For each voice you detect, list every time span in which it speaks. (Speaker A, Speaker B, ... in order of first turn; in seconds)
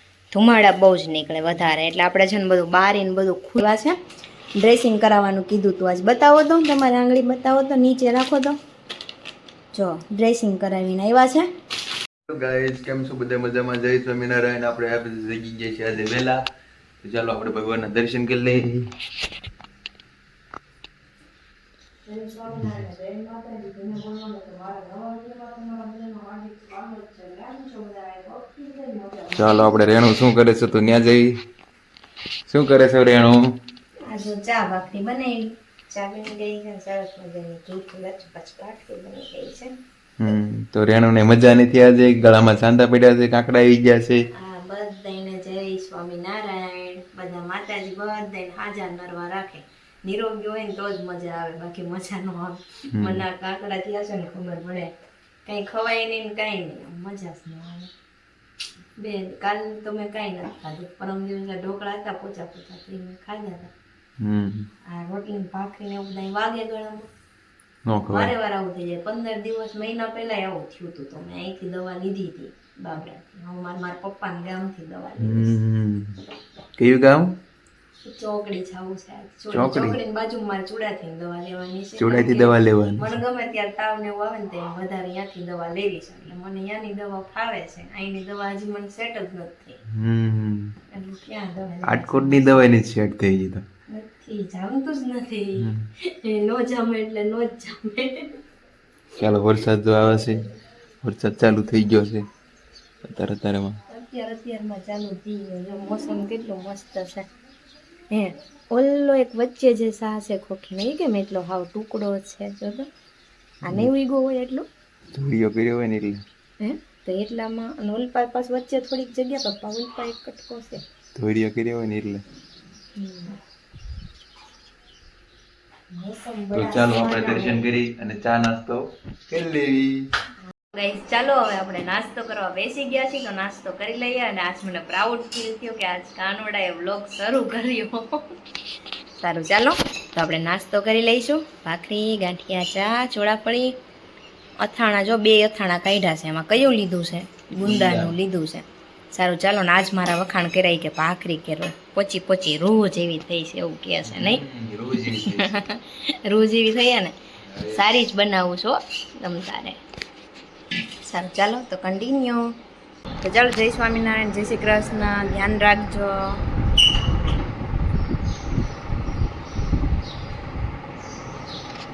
Speaker A: 0.3-4.0, 4.6-8.6, 9.7-11.5, 22.1-29.8, 34.0-39.7, 44.3-54.9, 55.5-57.9, 59.0-63.7, 64.9-67.1, 68.1-75.5, 78.0-89.8, 90.9-92.6, 93.9-98.4, 103.9-107.3, 108.1-112.9, 113.7-114.7, 116.6-120.8, 123.0-123.4, 125.9-127.6, 130.7-138.3, 139.2-143.8, 144.6-154.4, 155.2-159.8, 161.1-162.4, 163.2-166.4
Speaker B: 12.3-16.4, 17.0-18.9, 29.4-31.4, 32.5-33.5, 40.2-44.2, 52.9-53.2, 64.2-64.7, 67.9-68.3, 75.2-76.2, 76.8-77.3, 79.5-80.0, 82.0-83.1, 89.9-90.7, 91.8-93.6, 95.6-95.9, 99.2-100.5, 101.0-102.2, 103.0-103.8, 115.2-116.2, 121.2-122.2, 126.5-130.1, 147.6-148.1, 154.1-155.5, 157.5-157.8